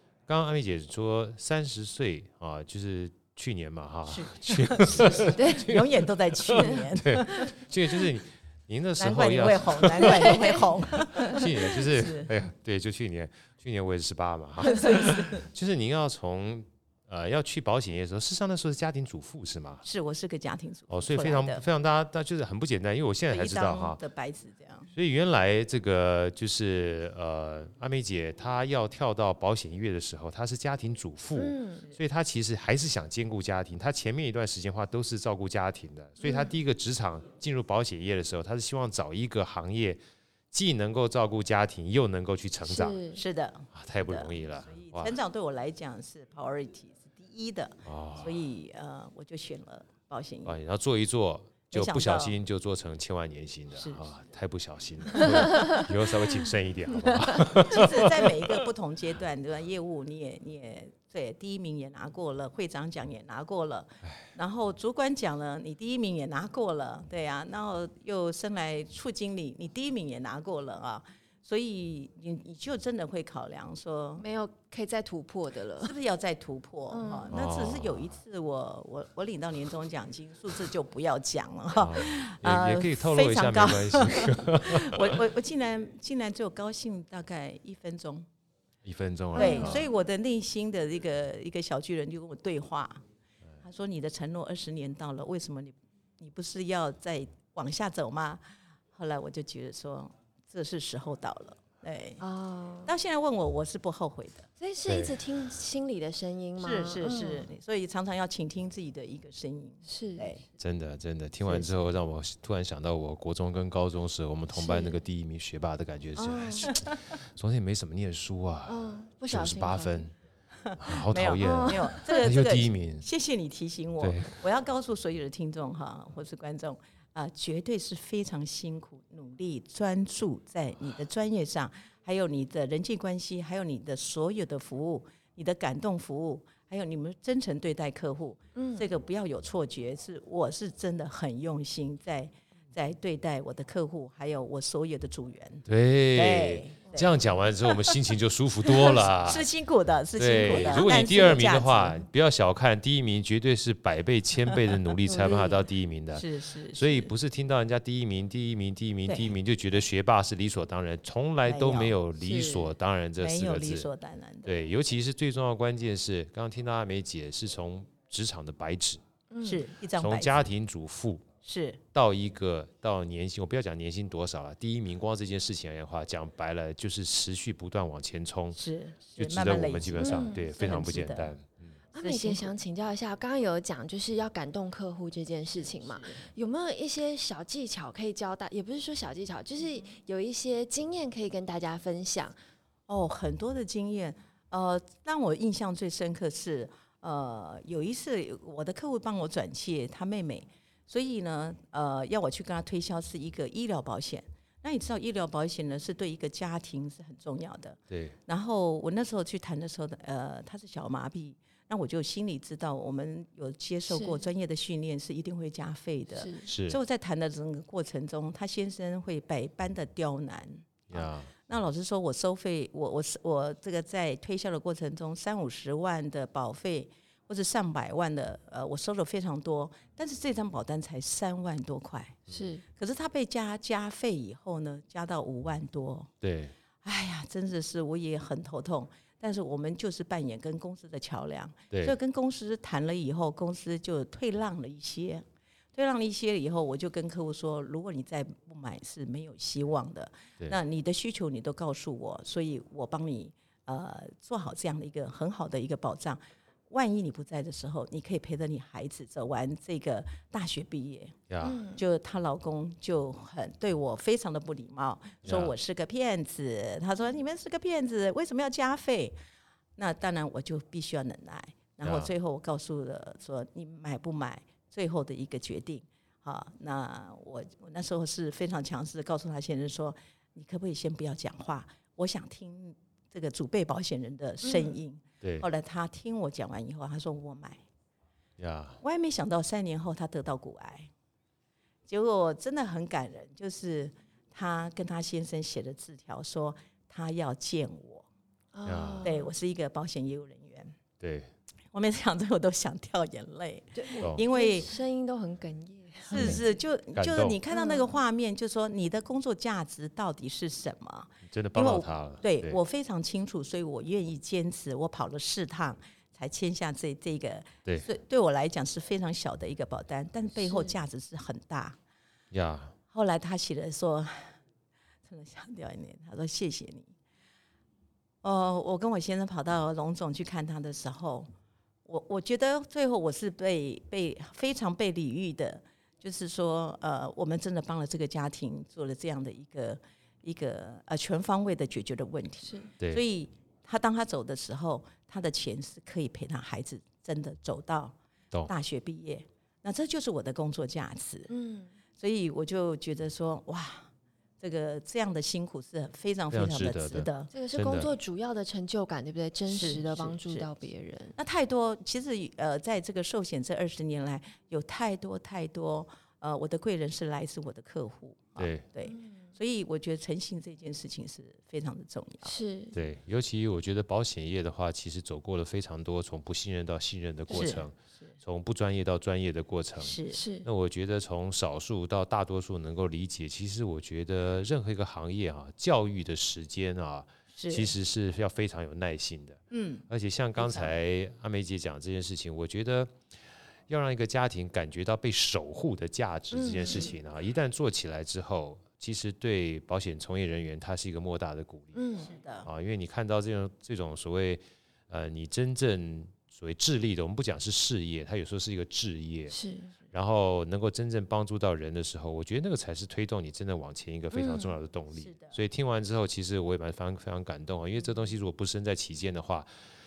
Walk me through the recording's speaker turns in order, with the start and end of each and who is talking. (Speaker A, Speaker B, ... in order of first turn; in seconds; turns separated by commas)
Speaker A: 0.3-19.8, Speaker B: 4.1-7.5, Speaker C: 5.2-5.7, Speaker B: 9.0-12.3, Speaker C: 10.1-10.6, Speaker B: 14.6-15.4, Speaker B: 19.8-21.6, Speaker A: 20.9-24.0, Speaker B: 23.3-24.9, Speaker A: 24.9-40.0, Speaker C: 31.4-31.9, Speaker C: 36.2-36.5, Speaker A: 40.5-43.0, Speaker C: 42.6-43.2, Speaker B: 43.1-50.5, Speaker A: 43.7-45.2, Speaker A: 47.8-48.4, Speaker A: 50.4-58.6, Speaker B: 51.7-52.4, Speaker B: 53.7-54.1, Speaker C: 55.3-55.8, Speaker B: 57.6-74.2, Speaker C: 74.2-75.9, Speaker B: 75.8-88.2, Speaker C: 76.9-77.3, Speaker A: 77.3-78.1, Speaker A: 81.8-85.2, Speaker A: 88.8-89.8, Speaker C: 89.3-89.8, Speaker B: 89.3-93.0, Speaker B: 93.6-98.4, Speaker B: 98.9-102.2, Speaker C: 102.2-102.9, Speaker B: 102.8-104.5, Speaker C: 104.6-107.5, Speaker A: 104.9-105.2, Speaker B: 106.6-110.4, Speaker C: 109.8-110.3, Speaker A: 110.6-120.1, Speaker C: 114.5-115.0, Speaker C: 116.2-116.7, Speaker B: 116.7-116.9, Speaker C: 118.7-120.0, Speaker B: 120.6-147.1, Speaker A: 120.8-123.0, Speaker C: 121.4-122.3, Speaker A: 124.0-124.4, Speaker C: 138.6-138.9, Speaker A: 145.7-149.4, Speaker B: 147.6-148.0, Speaker B: 148.7-152.0, Speaker A: 150.2-163.9, Speaker C: 155.1-155.6, Speaker B: 156.1-157.1, Speaker B: 159.1-159.3, Speaker B: 161.4-162.0, Speaker C: 162.2-162.7, Speaker B: 163.2-164.6, Speaker A: 164.4-169.0, Speaker C: 169.3-169.7, Speaker B: 169.4-170.5, Speaker A: 169.9-171.2, Speaker B: 171.4-171.8, Speaker A: 171.9-178.6, Speaker B: 178.6-181.3, Speaker A: 179.2-181.7, Speaker C: 180.0-180.5, Speaker C: 181.9-192.4, Speaker B: 182.0-182.5, Speaker B: 185.8-186.2, Speaker B: 192.9-232.2, Speaker A: 207.9-208.1, Speaker C: 213.9-214.2, Speaker C: 216.1-216.4, Speaker A: 216.4-216.8, Speaker A: 220.9-221.3, Speaker C: 232.3-232.6, Speaker B: 232.8-236.1, Speaker A: 236.2-236.5, Speaker B: 236.8-261.2, Speaker A: 261.3-261.6, Speaker C: 261.4-261.8, Speaker B: 261.7-269.1, Speaker A: 265.2-265.5, Speaker B: 269.8-287.6, Speaker A: 271.8-272.1, Speaker C: 284.4-284.8, Speaker A: 288.4-288.8, Speaker B: 288.8-290.9, Speaker B: 291.9-298.1, Speaker C: 298.5-299.3, Speaker A: 298.6-299.1, Speaker B: 299.0-300.8, Speaker A: 301.0-301.3, Speaker B: 301.7-304.7, Speaker C: 303.8-306.4, Speaker B: 306.1-321.8, Speaker A: 306.1-306.4, Speaker A: 306.9-307.4, Speaker C: 307.5-307.9, Speaker A: 311.2-312.6, Speaker C: 320.4-320.7, Speaker A: 322.3-322.7, Speaker B: 322.9-324.4, Speaker B: 325.1-326.9, Speaker B: 328.2-331.3, Speaker B: 331.9-347.9, Speaker C: 342.4-342.7, Speaker B: 348.5-351.3, Speaker C: 351.3-351.7, Speaker B: 352.0-353.9, Speaker B: 354.4-357.3, Speaker A: 356.3-357.9, Speaker C: 357.3-361.1, Speaker B: 359.5-360.5, Speaker B: 361.1-372.4, Speaker A: 368.4-368.6, Speaker C: 368.8-369.3, Speaker C: 372.2-372.7, Speaker A: 372.7-392.9, Speaker B: 377.3-378.1, Speaker B: 379.8-380.2, Speaker C: 380.1-380.5, Speaker B: 387.3-387.7, Speaker B: 389.5-389.9, Speaker B: 390.4-390.7, Speaker A: 393.7-401.8, Speaker C: 396.3-396.9, Speaker C: 401.7-402.1, Speaker B: 402.0-402.5, Speaker A: 402.4-409.3, Speaker C: 409.3-409.7, Speaker A: 409.9-419.5, Speaker C: 414.1-414.6, Speaker B: 414.9-415.4